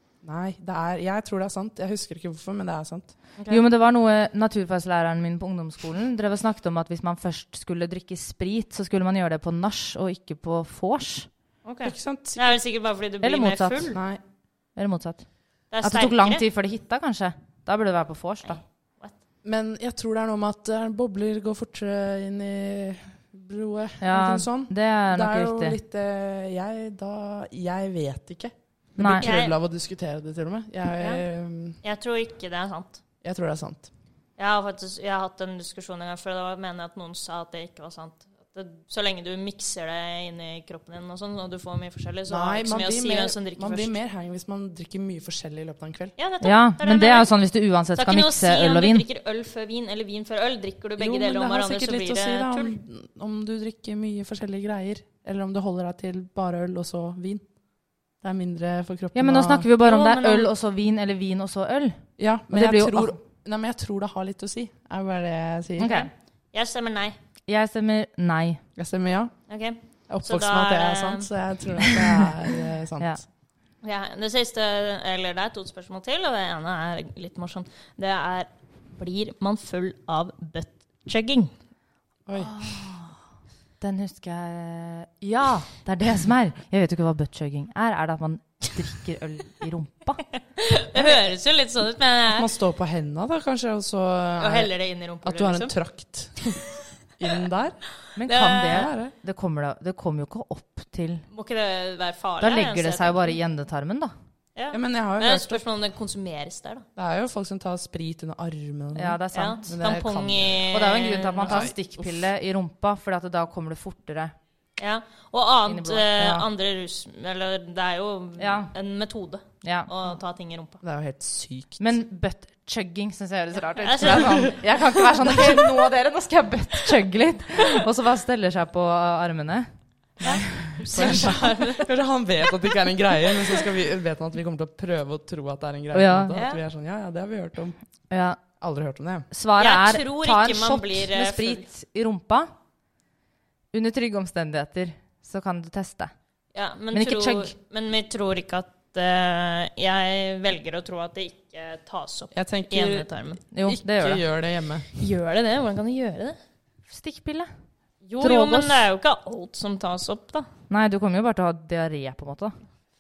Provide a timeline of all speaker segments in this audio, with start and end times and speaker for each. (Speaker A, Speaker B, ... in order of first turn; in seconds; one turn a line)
Speaker A: 0.2-3.5
Speaker B: 3.5-11.3
Speaker C: 11.6-14.0
Speaker A: 11.8-12.6
Speaker B: 13.2-14.0
Speaker A: 13.9-14.2
Speaker B: 14.8-18.6
Speaker C: 15.7-16.4
Speaker C: 18.4-19.1
Speaker A: 19.4-31.8
Speaker B: 24.0-25.8
Speaker B: 29.0-29.2
Speaker C: 29.2-29.6
Speaker C: 31.8-33.0
Speaker A: 33.2-33.9
Speaker C: 34.4-43.9
Speaker A: 42.3-46.1
Speaker C: 46.2-47.3
Speaker B: 46.4-49.1
Speaker C: 48.0-52.7
Speaker A: 51.0-57.5
Speaker A: 58.2-59.7
Speaker B: 59.1-63.2
Speaker C: 59.8-60.5
Speaker A: 62.2-66.0
Speaker B: 65.8-66.1
Speaker C: 65.8-67.2
Speaker B: 67.5-68.6
Speaker A: 68.8-69.3
Speaker C: 69.5-71.3
Speaker A: 70.1-73.2
Speaker C: 73.8-81.5
Speaker A: 82.3-82.6
Speaker B: 82.4-83.2
Speaker B: 83.8-90.2
Speaker C: 90.6-92.5
Speaker A: 92.2-94.7
Speaker C: 94.4-95.8
Speaker A: 95.2-96.5
Speaker A: 97.2-97.8
Speaker B: 98.2-101.2
Speaker C: 98.3-98.9
Speaker A: 98.7-99.1
Speaker C: 101.3-103.4
Speaker B: 102.4-104.1
Speaker C: 104.6-106.9
Speaker A: 104.7-105.6
Speaker A: 107.0-110.7
Speaker B: 109.0-109.8
Speaker C: 109.3-111.7
Speaker B: 110.7-114.3
Speaker A: 111.5-112.0
Speaker C: 114.8-120.8
Speaker B: 115.7-116.1
Speaker A: 116.2-116.5
Speaker B: 118.4-118.7
Speaker B: 119.6-119.9
Speaker A: 120.8-122.0
Speaker B: 121.8-131.6
Speaker C: 123.8-124.6
Speaker C: 130.2-131.9
Speaker A: 130.9-137.8
Speaker B: 135.9-136.4
Speaker C: 136.3-136.6
Speaker B: 138.1-138.4
Speaker A: 138.6-139.3
Speaker B: 139.3-142.5
Speaker C: 139.6-141.7
Speaker B: 143.7-146.1
Speaker C: 146.5-153.4
Speaker B: 146.9-147.5
Speaker A: 152.3-153.1
Speaker B: 153.5-154.2
Speaker A: 153.6-154.9
Speaker C: 155.0-156.4
Speaker B: 156.9-157.5
Speaker C: 158.1-160.5
Speaker B: 158.2-158.8
Speaker B: 160.7-162.6